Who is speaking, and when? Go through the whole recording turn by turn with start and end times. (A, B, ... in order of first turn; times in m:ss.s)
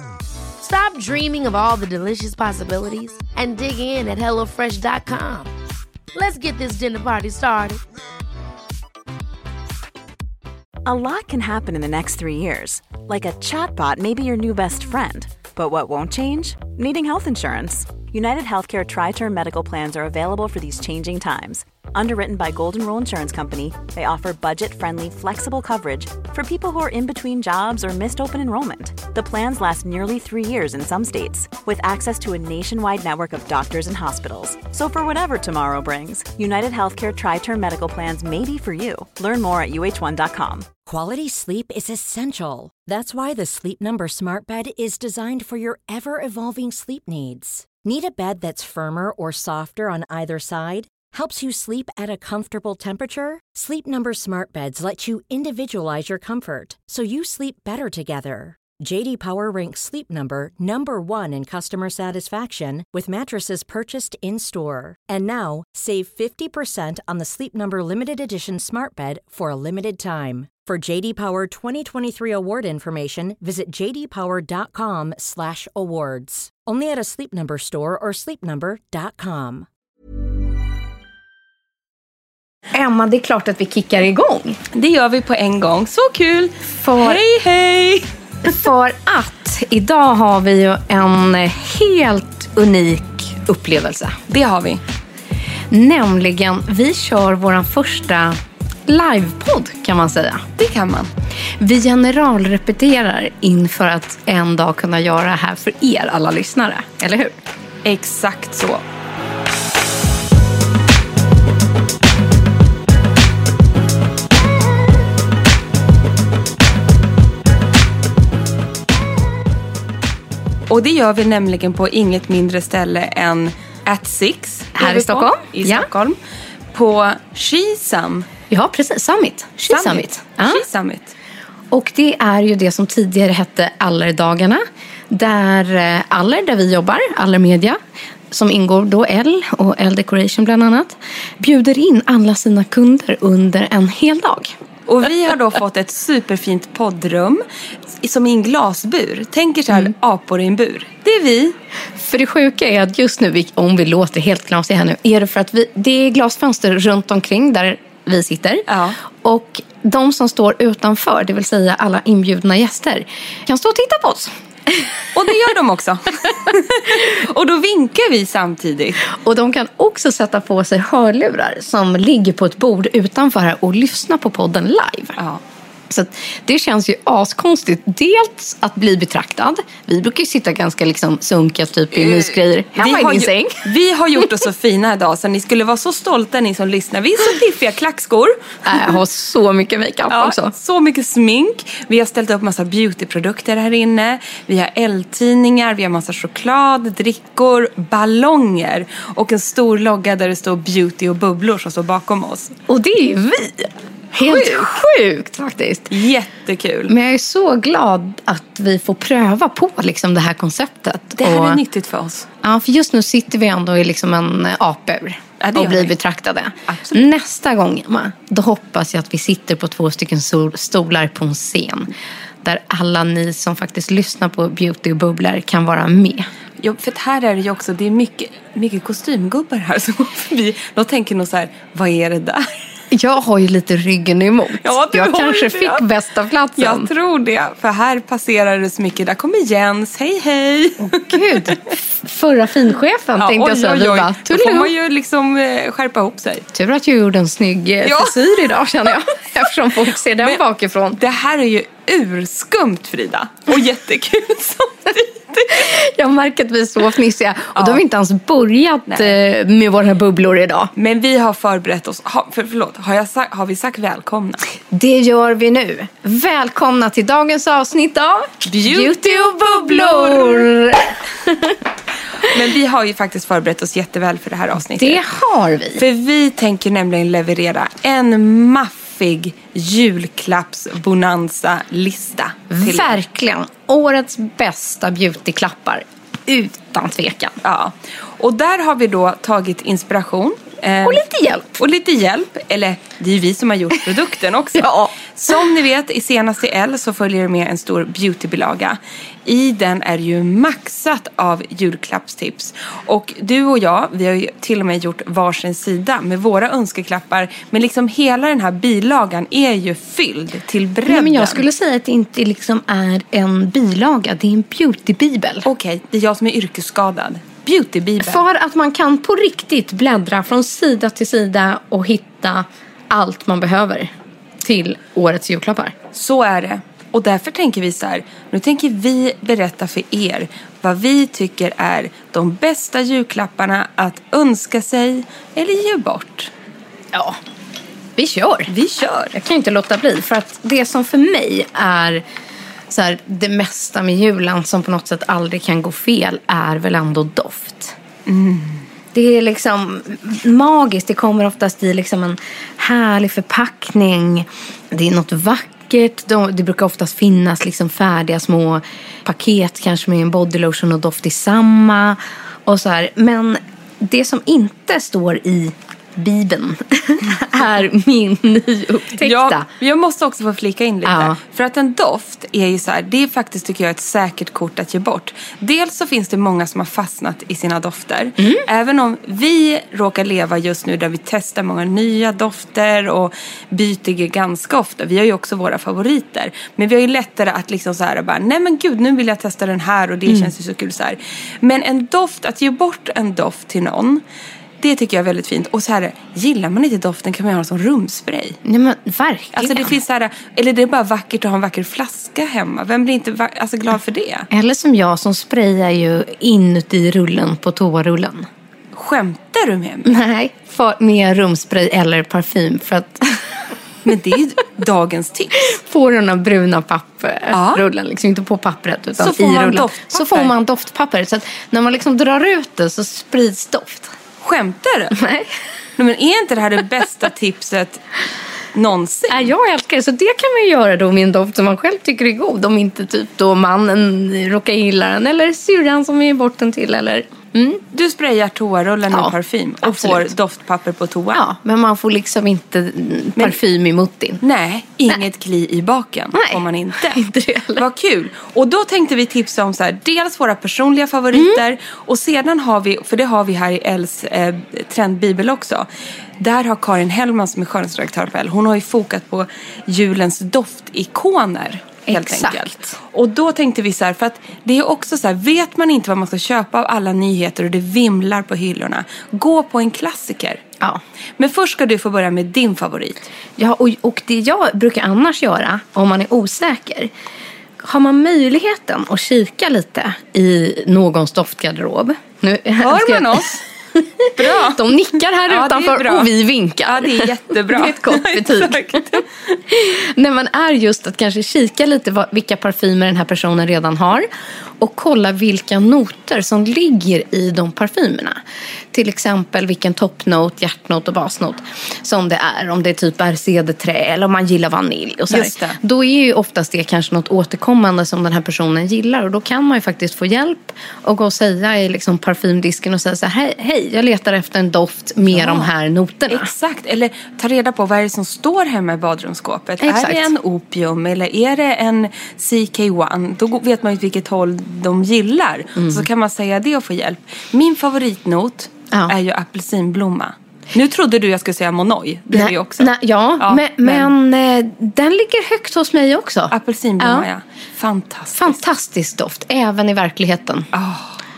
0:00.6-0:05.5 A
0:06.1-0:07.8 A
0:10.8-0:40.7 B
0:40.8-1:19.7 C
1:22.7-1:24.6 D
1:24.7-1:28.1 E
1:26.8-1:27.2 D
1:28.4-1:34.2 D
1:34.3-1:34.8 E
1:35.7-1:38.4 D
1:38.9-1:40.5 D
1:40.6-1:41.1 E
1:41.6-1:47.4 D
1:47.8-1:48.8 E
2:00.7-2:06.2 E
2:04.7-2:05.9 D
2:06.7-2:08.3 E
2:08.5-2:10.6 D
2:09.7-2:11.1 E
2:11.7-2:17.8 D
2:18.3-2:24.5 D
2:24.9-2:27.4 E
2:28.0-2:31.6 E
2:32.0-2:38.7 D
2:38.7-2:39.0 E
2:39.2-2:44.3 D
2:45.1-2:49.0 E
2:49.0-2:55.2 D
2:55.9-3:03.6 D
3:02.0-3:08.9 E
3:08.6-3:10.5 D
3:10.1-3:22.5 E
3:22.7-3:25.9 D
3:24.2-3:24.8 E
3:25.9-3:26.9 E
3:26.9-3:31.6 D
3:31.2-3:32.3 E
3:32.4-3:46.3 D
3:35.4-3:35.9 E
3:36.7-3:37.1 E
3:46.6-3:52.4 E
3:52.9-3:56.9 D
3:54.6-3:55.8 E
3:56.6-4:01.6 E
4:00.8-4:04.7 D
4:03.2-4:06.4 E
4:06.5-4:11.0 D
4:07.8-4:08.9 E
4:11.0-4:15.6 E
4:15.5-4:20.7 D
4:20.8-4:24.4 E
4:24.7-4:31.6 D
4:28.4-4:30.5 E
4:32.2-4:35.0 E
4:34.7-4:35.8 D
4:35.8-4:43.0 E
4:42.5-4:47.4 D
4:47.4-4:51.0 E
4:50.8-4:51.6 D
4:51.6-5:11.4 E
4:54.6-4:55.4 D
5:10.8-5:15.5 D
5:15.4-5:18.2 E
5:18.0-5:25.7 D
5:25.9-5:36.3 E
5:36.9-5:37.2 D
5:38.0-5:38.5 D
5:38.5-5:39.1 E
5:39.1-5:42.0 D
5:42.7-5:47.8 D
5:48.0-5:48.6 E
5:48.9-6:09.4 D
6:09.0-6:34.0 E
6:10.8-6:11.2 D
6:18.2-6:18.4 D
6:34.6-6:38.4 E
6:38.4-6:39.8 D
6:39.4-6:44.3 E
6:44.3-6:48.3 D
6:48.7-6:49.9 E
6:49.8-6:53.3 D
6:53.8-6:55.4 E
6:55.4-7:03.9 D
6:57.3-6:57.6 E
6:59.0-7:00.3 E
7:04.2-7:05.0 E
7:04.9-7:05.3 D
7:05.8-7:07.8 E
7:08.5-7:09.3 E
7:09.1-7:17.6 D
7:17.7-7:21.2 E
7:18.9-7:20.1 D
7:21.1-7:24.2 D
7:24.2-7:27.0 E
7:26.1-7:27.6 D
7:27.6-7:35.7 E
7:31.1-7:31.4 D
7:36.2-7:50.4 E
7:41.9-7:42.7 D
7:51.2-7:53.1 E
7:53.4-7:56.9 D
7:57.6-8:14.1 D
8:02.6-8:03.4 E
8:04.1-8:04.7 E
8:05.2-8:06.1 E
8:06.6-8:09.1 E
8:14.6-8:18.2 D
8:18.7-8:36.3 D
8:25.1-8:25.6 E
8:35.0-8:35.5 E
8:36.1-8:53.9 E
8:39.6-8:40.1 D
8:45.6-8:45.8 D
8:52.1-8:57.1 D
8:56.3-8:58.4 E
8:58.1-9:00.5 D
9:00.5-9:01.0 E